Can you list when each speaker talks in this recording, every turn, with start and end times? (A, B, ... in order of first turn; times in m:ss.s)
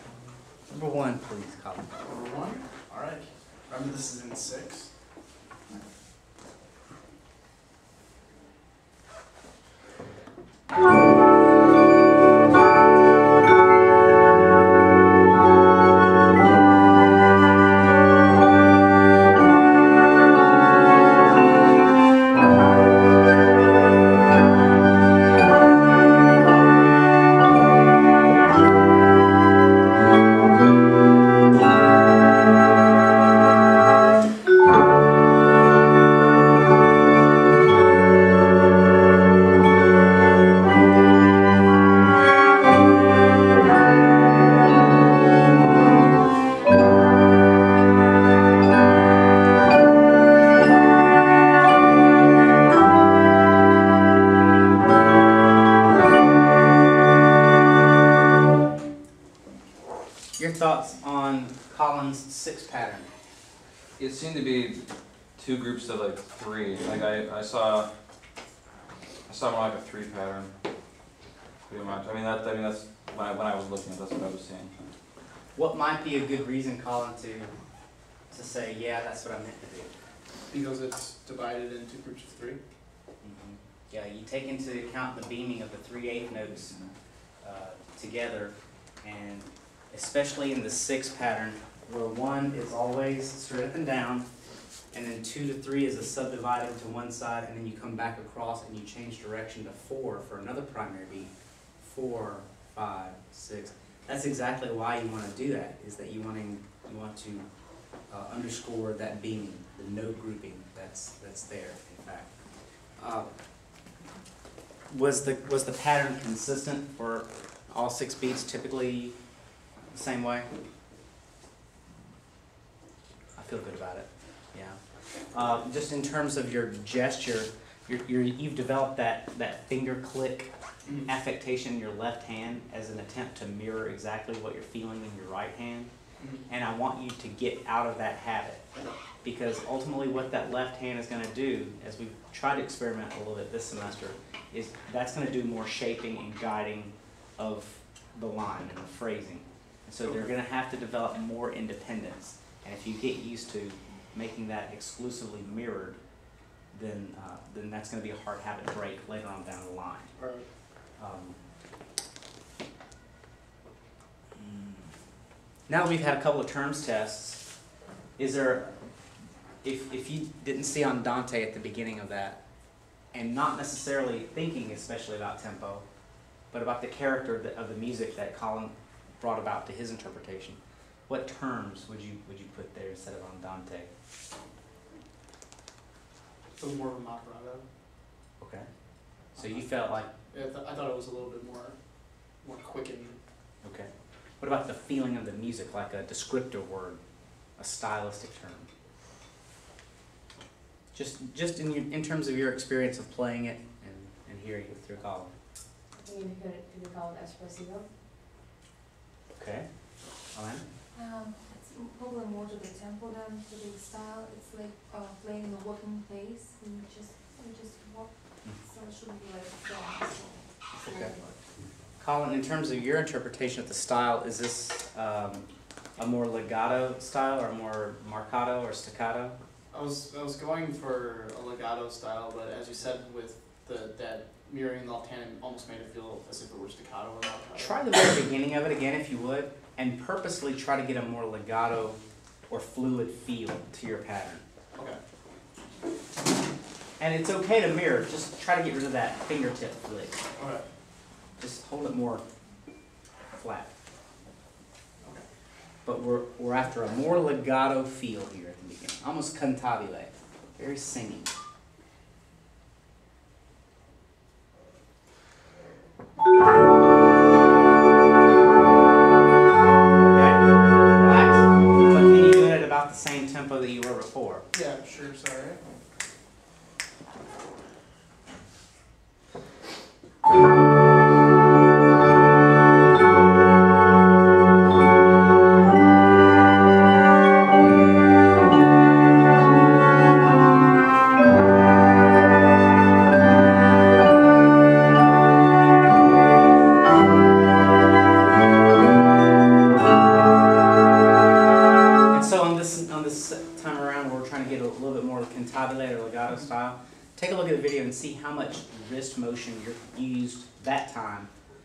0:00.7-0:01.9 A
0:02.0-0:04.9 B
1:00.4-1:03.1 A
1:04.0-1:04.8 C
1:05.4-1:07.9 C
1:09.3-1:10.5 C
1:11.7-1:14.7 C
1:15.6-1:17.5 A
1:18.3-1:19.9 A
1:20.5-1:22.6 B
1:23.2-1:26.8 A
1:27.4-1:34.3 A
1:34.9-1:47.4 A
1:48.1-1:52.3 A
1:53.0-1:53.3 A
1:54.9-1:59.2 A
1:59.9-2:00.5 A
2:03.4-2:04.8 A
2:05.3-2:10.5 A
2:11.1-2:15.9 A
2:16.2-2:16.5 B
2:16.5-2:18.6 A
2:19.2-2:36.0 A
2:36.7-2:40.1 A
2:40.2-2:40.4 B
2:41.0-2:41.4 A
2:44.4-2:44.8 A
2:45.7-2:47.4 A
2:48.2-2:48.7 A
2:49.6-2:52.4 A
2:53.1-2:55.8 A
2:56.5-3:03.9 A
3:06.6-3:07.6 B
3:08.4-3:08.7 A
3:09.4-3:09.7 B
3:09.4-3:10.1 A
3:10.3-3:11.8 B
3:12.4-3:13.2 B
3:13.6-3:13.9 A
3:14.4-3:17.0 A
3:17.6-3:18.7 A
3:20.9-3:25.3 A
3:26.0-3:27.9 D
3:29.4-3:29.7 A
3:30.3-3:30.6 A
3:31.0-3:41.4 D
3:40.8-3:41.2 A
3:42.0-3:45.5 A
3:46.0-3:49.4 A
3:49.7-3:57.8 B
3:57.6-4:02.0 A
4:02.5-4:04.4 A
4:07.0-4:10.2 A
4:10.4-4:10.6 B
4:11.4-4:12.2 A
4:13.3-4:13.7 A
4:15.8-4:21.3 A
4:30.0-4:34.4 A
4:34.5-4:35.6 B
5:02.1-5:11.3 A